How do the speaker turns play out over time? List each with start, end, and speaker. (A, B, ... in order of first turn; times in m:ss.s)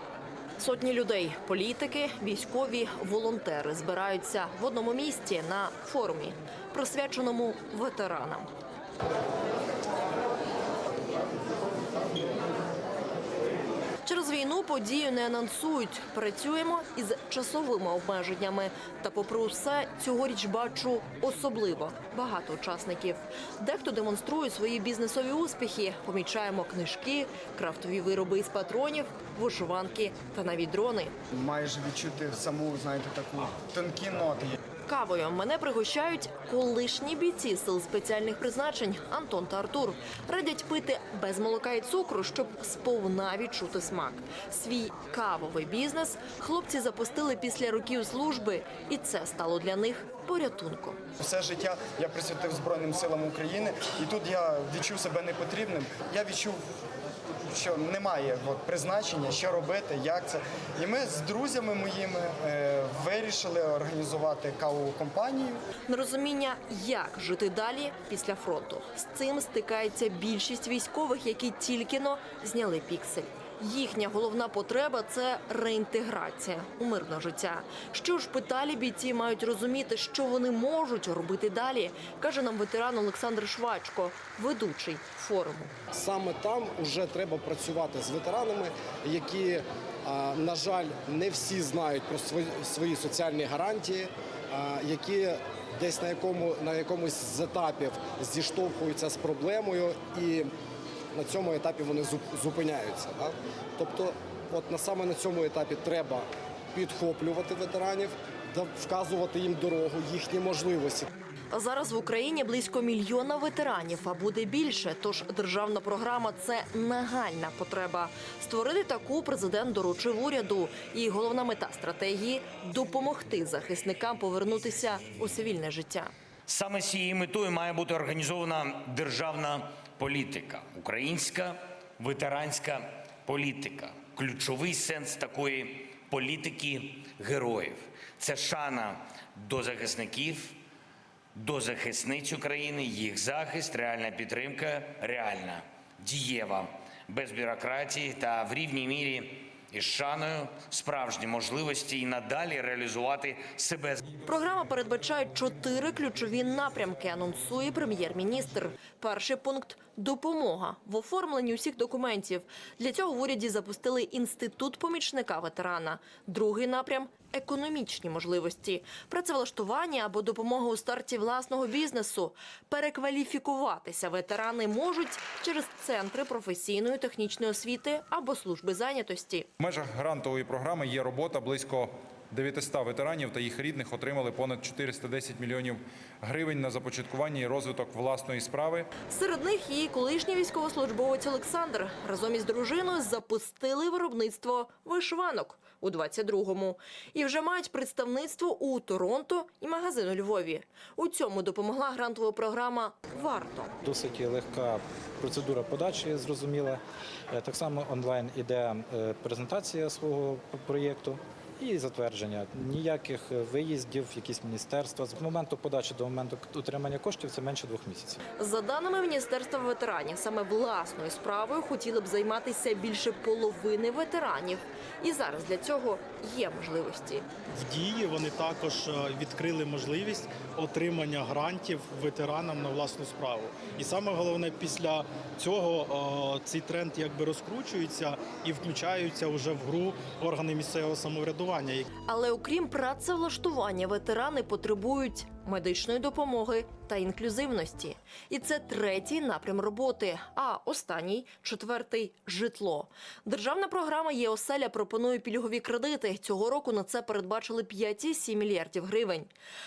0:00.6-0:08.5 A
0:14.0-0:31.2 A
0:31.3-0:34.6 B
0:34.9-0:51.0 A
0:51.2-0:56.6 B
0:57.5-1:05.6 B
1:05.9-1:25.7 A
1:25.9-1:40.5 C
1:41.1-1:51.1 C
1:51.5-2:06.1 A
2:06.5-2:20.6 D
2:21.4-2:34.0 D
2:34.2-2:59.5 A
2:59.6-3:08.9 E
3:09.0-3:23.7 A
3:23.8-3:38.2 F
3:38.4-3:47.3 A
3:47.5-4:01.9 G
4:02.1-4:19.3 A